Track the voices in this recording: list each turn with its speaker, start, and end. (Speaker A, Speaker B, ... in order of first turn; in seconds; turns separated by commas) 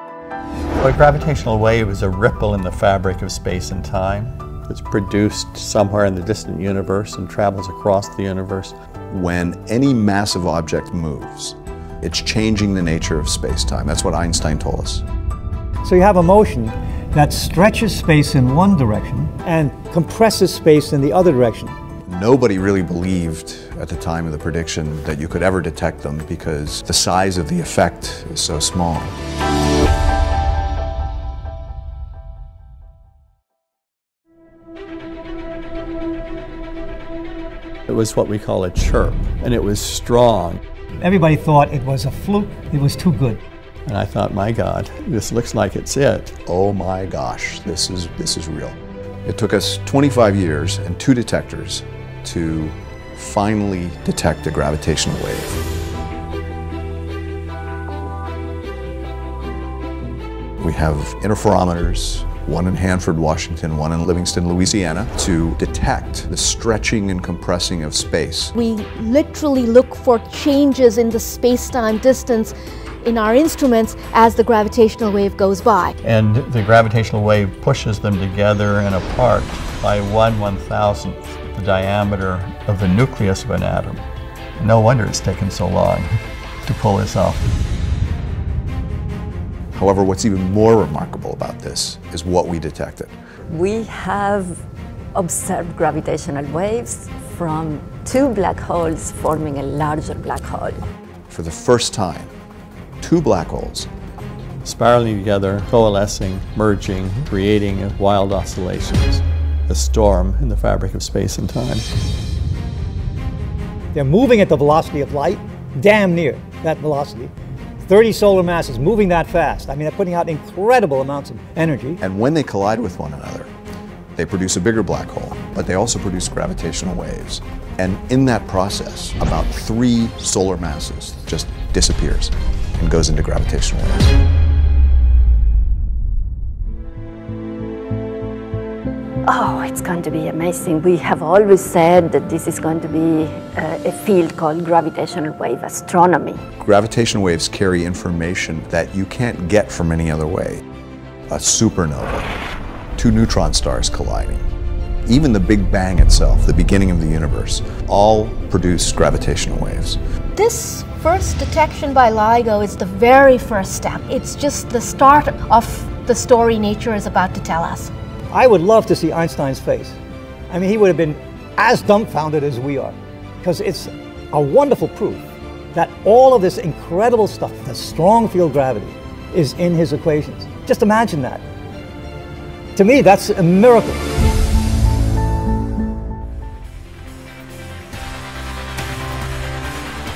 Speaker A: 0.8-8.8, Speaker B: 9.1-15.0, Speaker C: 15.8-21.8, Speaker B: 22.1-29.1, Speaker A: 37.9-40.6, Speaker C: 41.0-43.4, Speaker A: 43.9-46.4, Speaker B: 46.5-55.6, Speaker B: 60.6-68.5, Speaker D: 68.5-76.0, Speaker A: 76.0-84.0, Speaker A: 84.6-86.1, Speaker A: 86.7-87.4, Speaker B: 89.8-93.1, Speaker E: 93.5-94.6, Speaker E: 95.1-100.9, Speaker B: 101.3-102.3, Speaker B: 103.0-103.9, Speaker A: 104.7-111.9, Speaker C: 113.9-117.3, Speaker C: 117.8-122.0, Speaker B: 122.0-123.5, Speaker B: 124.2-134.1, Speaker E: 139.2-146.4, Speaker B: 146.6-150.6, Speaker B: 151.3-152.4, Speaker B: 153.0-154.5, Speaker B: 155.1-160.0, Speaker D: 160.3-167.9, Speaker C: 168.3-170.0, Speaker C: 170.5-175.2, Speaker C: 175.7-181.4, Speaker C: 182.8-184.0